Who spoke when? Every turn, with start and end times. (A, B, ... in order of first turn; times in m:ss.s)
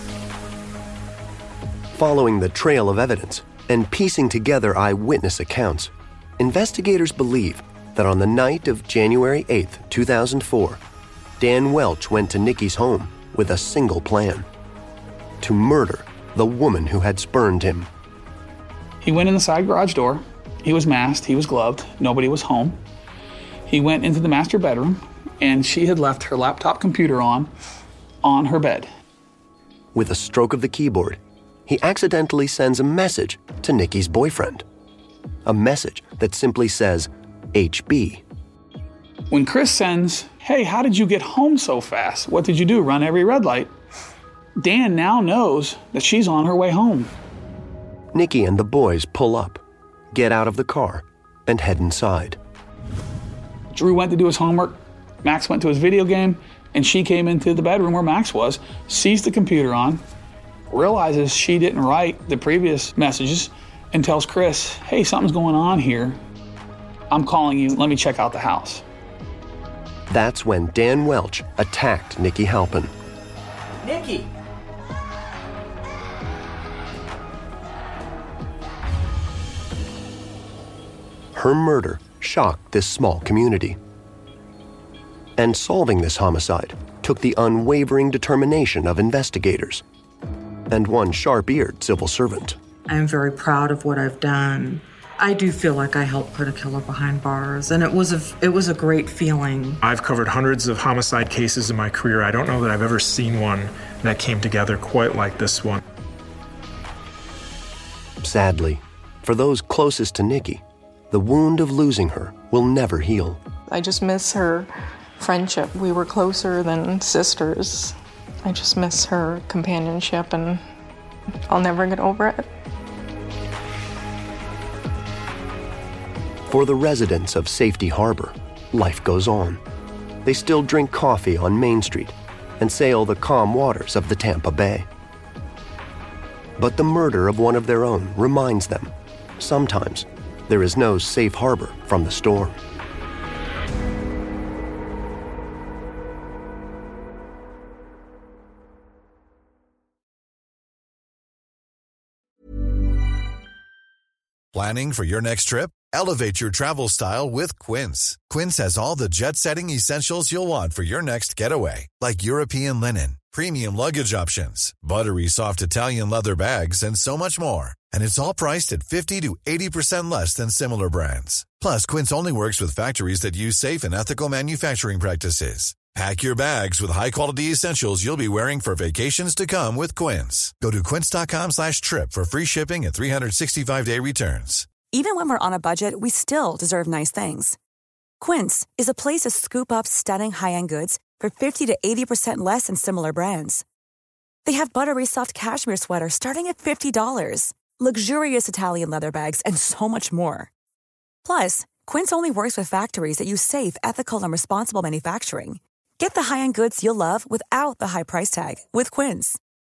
0:01.9-0:10.8 A
0:11.4-0:14.5 A
0:15.4-0:17.9 A
0:19.0-0:22.8 B
0:23.7-0:27.5 B
0:28.2-0:28.9 B
0:29.9-0:34.6 A
0:35.4-0:38.2 A
0:39.3-0:43.7 B
0:44.6-0:47.1 B
0:48.1-0:52.4 A
0:53.7-1:00.0 B
1:00.7-1:06.2 B
1:07.1-1:08.8 B
1:10.1-1:12.9 A
1:21.3-1:23.8 A
1:25.4-1:29.8 A
1:30.7-1:32.6 A
1:32.9-1:39.8 C
1:39.8-1:45.8 D
1:48.2-1:53.4 A
1:53.7-2:00.6 E
2:01.5-2:02.5 E
2:06.5-2:09.6 A
2:10.2-2:14.9 A
2:16.6-2:22.6 A
2:34.5-3:04.7 F
3:04.9-3:07.6 G
3:08.2-3:13.6 G
3:14.4-3:20.5 G
3:21.2-3:29.4 G